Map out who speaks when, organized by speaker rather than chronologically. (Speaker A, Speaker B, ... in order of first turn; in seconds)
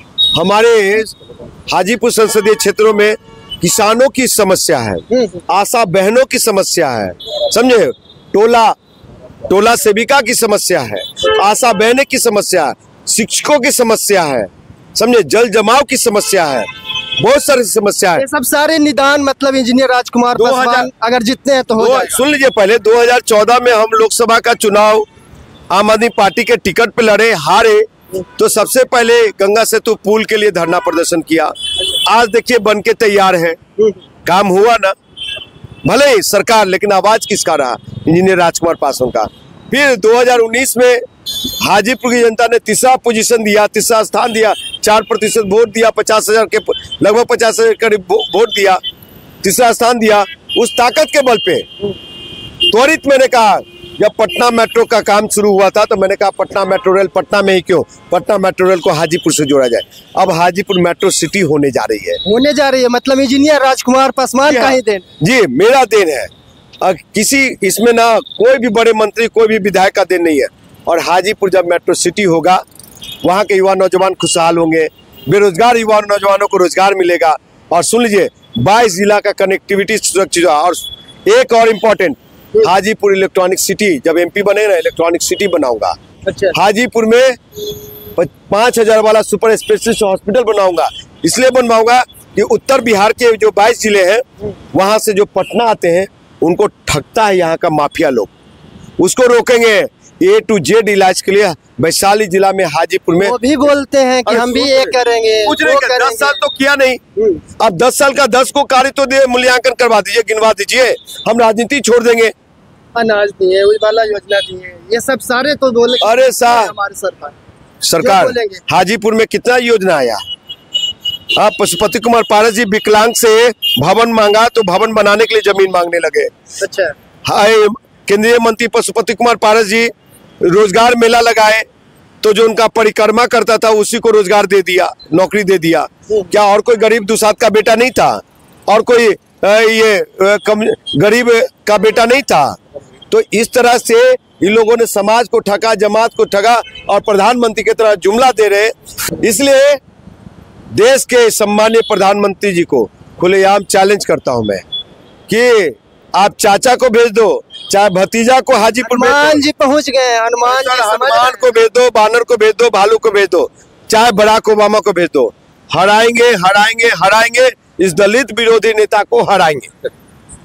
Speaker A: 0.3-1.1, 1.7-8.8, 9.5-18.2, 20.4-20.9, 21.8-25.1, 25.7-33.6, 34.2-35.0, 35.9-48.8, 49.4-51.7, 52.7-62.2, 64.4-66.3, 66.8-72.6, 73.2-86.0, 86.5-87.4, 88.1-98.3, 99.0-103.3, 104.3-104.9, 105.5-107.0, 107.6-112.3, 116.0-116.7, 117.8-120.2, 121.3-126.3, 127.3-131.7, 132.2-142.6, 143.1-149.8, 150.7-154.6, 155.3-159.4, 160.4-169.7
Speaker B: 5.1-5.5, 18.2-22.2, 62.2-65.0, 86.2-86.5, 103.2-106.4, 107.2-107.4, 113.0-117.3, 118.0-118.6, 126.6-127.0, 158.8-161.5